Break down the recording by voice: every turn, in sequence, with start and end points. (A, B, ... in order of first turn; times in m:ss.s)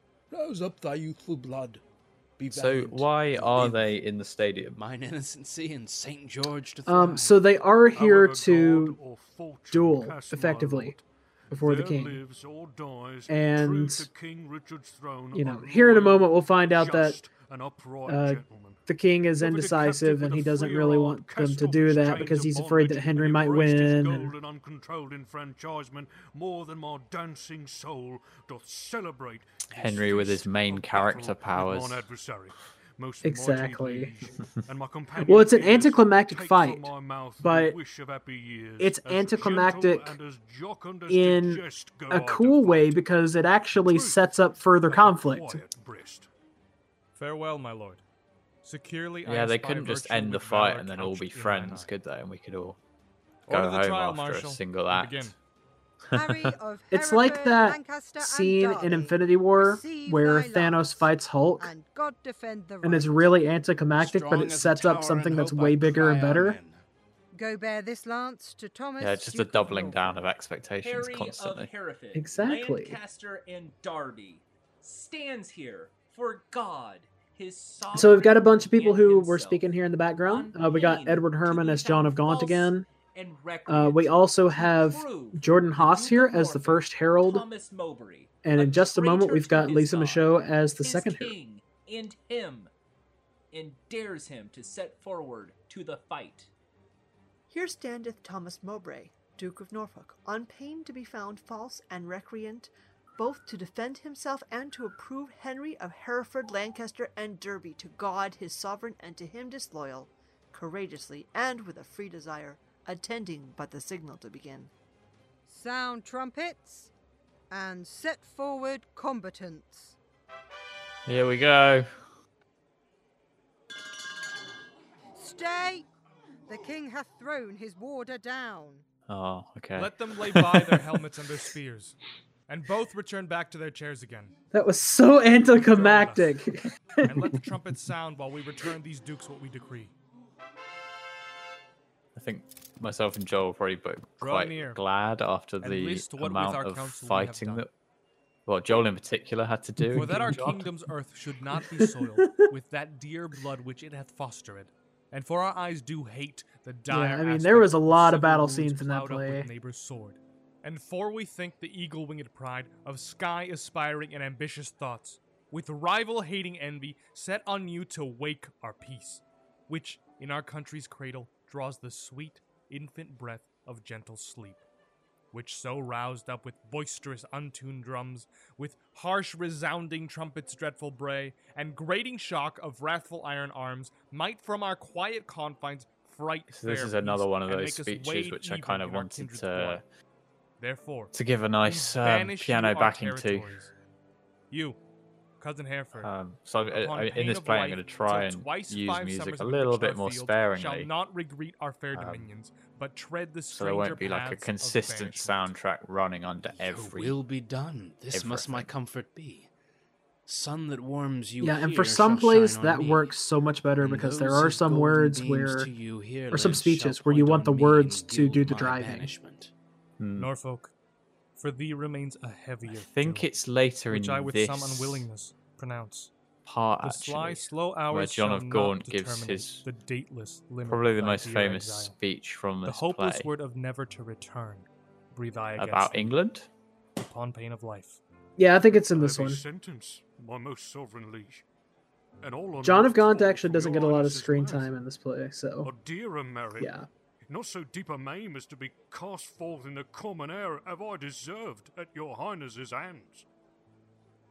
0:00.3-0:01.8 A
0:02.4-0:03.7 A
0:02.5-0:04.8 B
0:03.3-0:03.9 C
0:04.8-0:07.4 C
0:06.9-0:09.0 D
0:07.9-0:18.8 E
0:09.7-0:11.0 D
0:11.5-0:12.2 D
0:13.3-0:14.1 D
0:15.3-0:17.2 D
0:18.1-0:24.3 D
0:19.4-0:29.5 E
0:29.7-0:30.4 C
0:29.8-0:32.1 B
0:30.1-0:43.1 E
0:33.2-0:34.1 D
0:35.2-0:37.8 D
0:38.8-0:40.2 D
0:41.1-0:45.6 D
0:43.7-0:44.3 E
0:44.8-0:46.3 E
0:47.2-0:48.0 F
0:48.6-0:51.9 F
0:49.2-0:52.8 B
0:53.5-0:55.4 F
0:53.5-0:55.4 B
0:56.1-0:56.6 B
0:56.1-1:03.3 G
0:56.9-1:01.7 D
1:02.8-1:06.6 D
1:04.0-1:06.8 C
1:07.3-1:10.2 G
1:09.0-1:11.7 B
1:10.8-1:32.7 H
1:12.1-1:13.0 D
1:17.9-1:22.9 D
1:23.7-1:27.5 D
1:28.4-1:31.3 D
1:33.5-1:36.5 H
1:37.5-1:54.7 I
1:55.5-1:56.9 G
1:57.5-2:00.0 G
2:01.1-2:01.9 B
2:05.2-2:05.9 G
2:06.5-2:08.8 G
2:09.1-2:10.9 B
2:09.8-2:14.4 F
2:14.5-2:17.3 D
2:15.6-2:16.4 F
2:17.0-2:19.9 F
2:22.2-2:27.7 B
2:24.2-2:24.8 F
2:25.6-2:27.6 F
2:28.5-2:30.7 B
2:29.9-2:54.6 F
2:31.8-2:32.5 D
2:36.9-2:39.5 D
2:55.3-3:09.8 F
3:06.5-3:09.8 B
3:10.6-3:13.7 F
3:11.1-3:13.5 B
3:14.5-3:14.8 F
3:15.4-3:16.1 F
3:16.0-3:20.9 B
3:16.7-3:25.5 F
3:21.9-3:22.3 B
3:23.5-3:27.2 B
3:26.5-3:29.5 C
3:28.1-3:28.7 B
3:30.3-3:33.1 C
3:31.4-3:35.7 D
3:33.8-3:39.5 C
3:36.3-3:39.1 D
3:40.0-3:40.3 B
3:40.2-3:40.7 F
3:41.4-3:43.3 F
3:42.6-3:45.0 B
3:43.9-3:46.1 F
3:46.4-3:49.7 B
3:46.8-3:52.0 F
3:50.7-3:53.3 B
3:52.6-3:56.1 F
3:55.6-3:56.5 B
3:57.0-3:58.0 F
3:58.4-3:59.4 D
3:58.9-4:01.4 E
4:02.2-4:04.8 E
4:02.6-4:05.7 D
4:05.6-4:06.8 E
4:06.6-4:06.9 D
4:07.3-4:13.3 E